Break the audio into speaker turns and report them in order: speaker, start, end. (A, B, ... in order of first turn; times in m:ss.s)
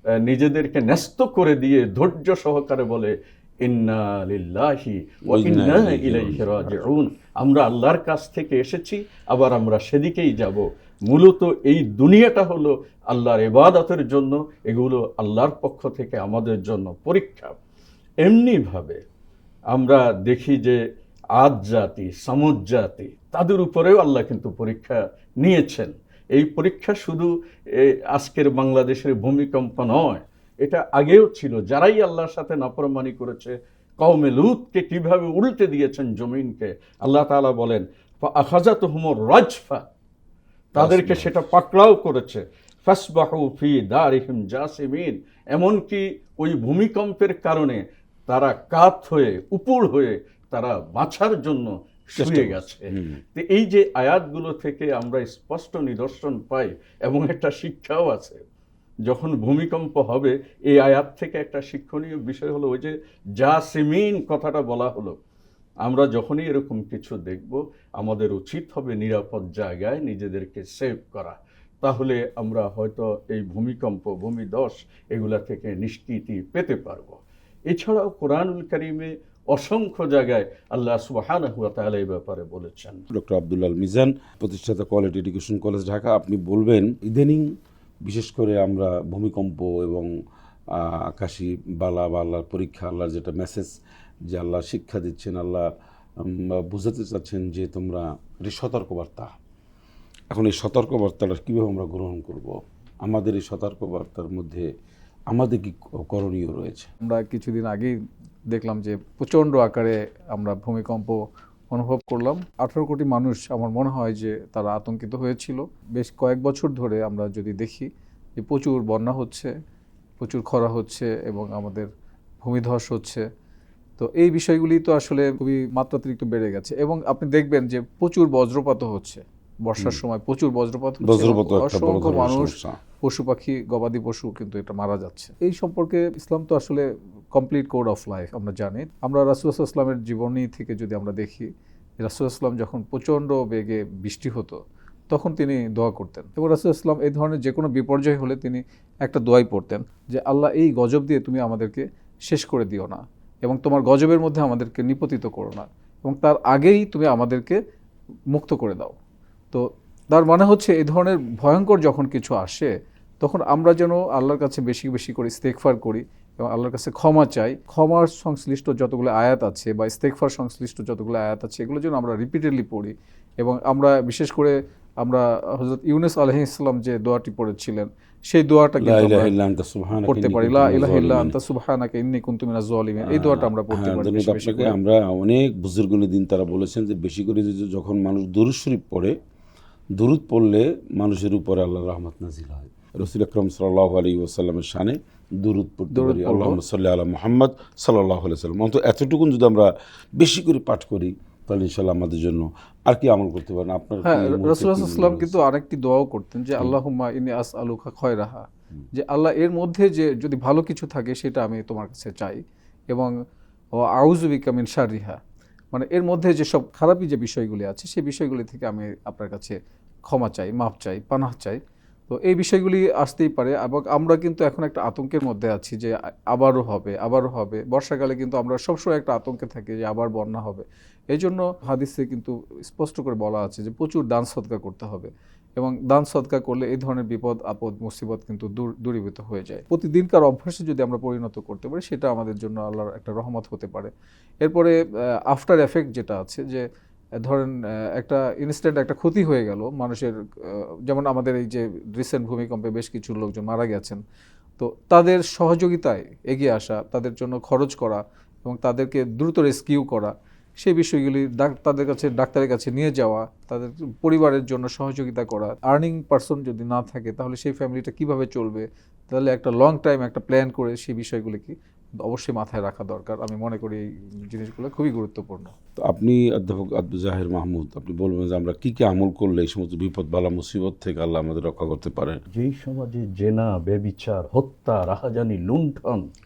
0:00.2-0:17.5 A
0:05.3-0:06.8 B
0:18.2-0:19.0 A
0:19.7-0:20.8 A
0:21.4-0:39.8 A
0:40.7-0:58.4 A
0:40.8-0:41.4 B
0:52.2-0:53.2 B
0:59.1-1:05.2 A
1:05.8-1:17.2 A
1:17.7-1:23.0 A
1:23.1-1:27.4 B
1:28.0-1:30.1 B
1:30.7-1:33.7 B
1:34.3-1:35.6 B
1:36.2-1:39.3 B
1:40.3-1:44.6 B
1:45.3-1:46.9 B
1:47.0-1:47.9 C
1:48.5-1:51.2 C
1:51.7-1:59.5 C
2:00.2-2:01.9 C
2:02.4-2:03.2 C
2:04.0-2:21.5 C
2:11.0-2:12.8 B
2:22.0-2:24.6 C
2:25.1-2:37.6 C
2:38.3-2:38.9 C
2:39.5-2:59.3 C
2:58.8-3:01.4 B
3:00.0-3:04.8 C
3:03.0-3:09.1 B
3:10.0-3:25.4 B
3:15.9-3:16.6 C
3:24.0-3:33.1 C
3:33.8-3:35.2 C
3:35.7-3:39.5 C
3:40.1-4:03.9 C
4:04.4-4:04.7 C
4:05.3-4:06.6 C
4:07.2-4:14.0 C
4:14.6-4:35.5 C
4:35.8-4:42.2 B
4:42.3-4:46.0 A